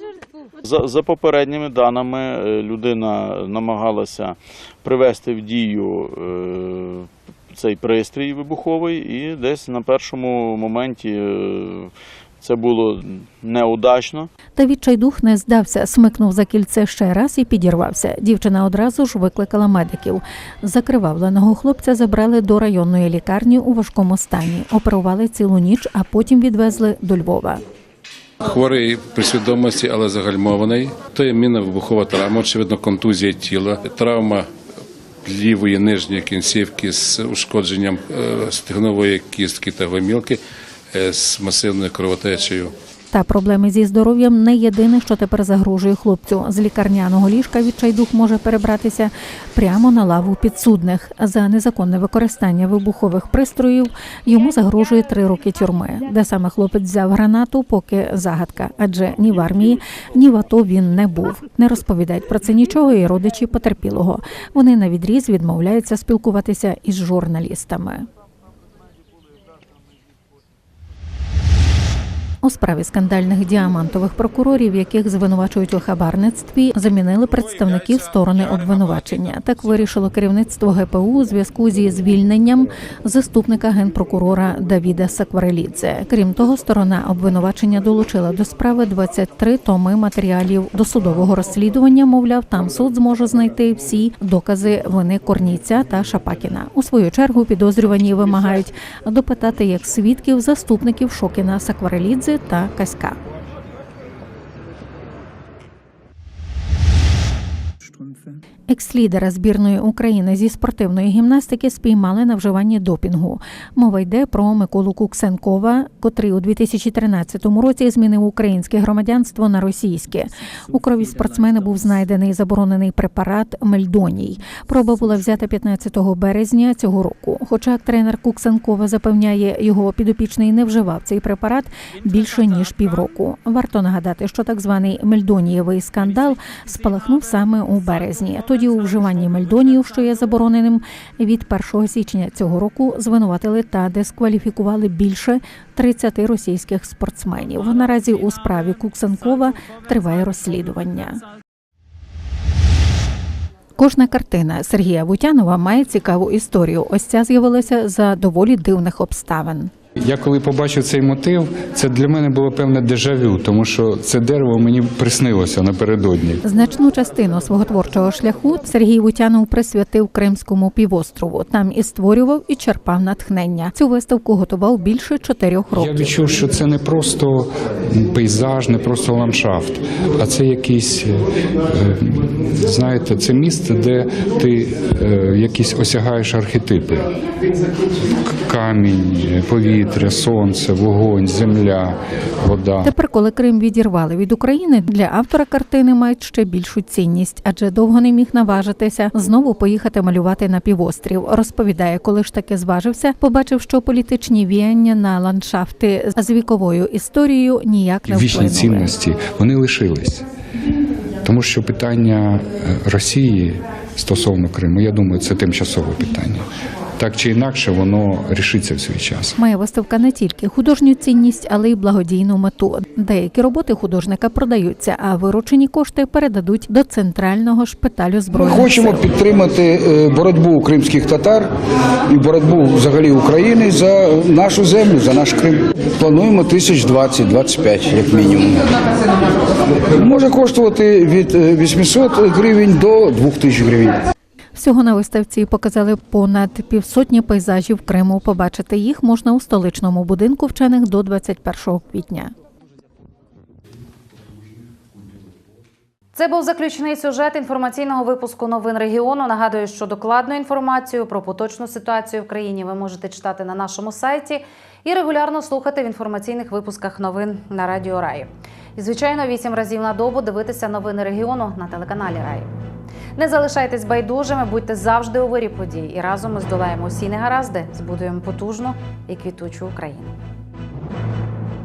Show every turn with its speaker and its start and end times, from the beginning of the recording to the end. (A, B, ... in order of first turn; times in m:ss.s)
0:00.6-0:14.3 A
0:14.6-0:27.6 B
0:28.4-0:34.4 C
0:35.2-0:40.4 C
0:40.9-0:42.7 C
0:43.1-1:08.0 B
1:12.4-1:43.2 B
1:48.7-2:31.2 B
2:33.8-2:39.7 B
2:40.0-2:46.4 D
2:46.4-2:56.0 B
2:55.7-3:07.1 D
3:08.0-3:12.9 D
3:12.8-3:28.9 B
3:28.1-3:30.2 D
3:31.2-3:39.3 D
3:39.4-3:49.0 B
3:48.3-3:51.5 E
3:52.1-3:58.7 E
3:59.7-4:04.0 E
4:04.5-4:12.3 B
4:16.1-4:32.5 F
4:33.2-4:40.1 F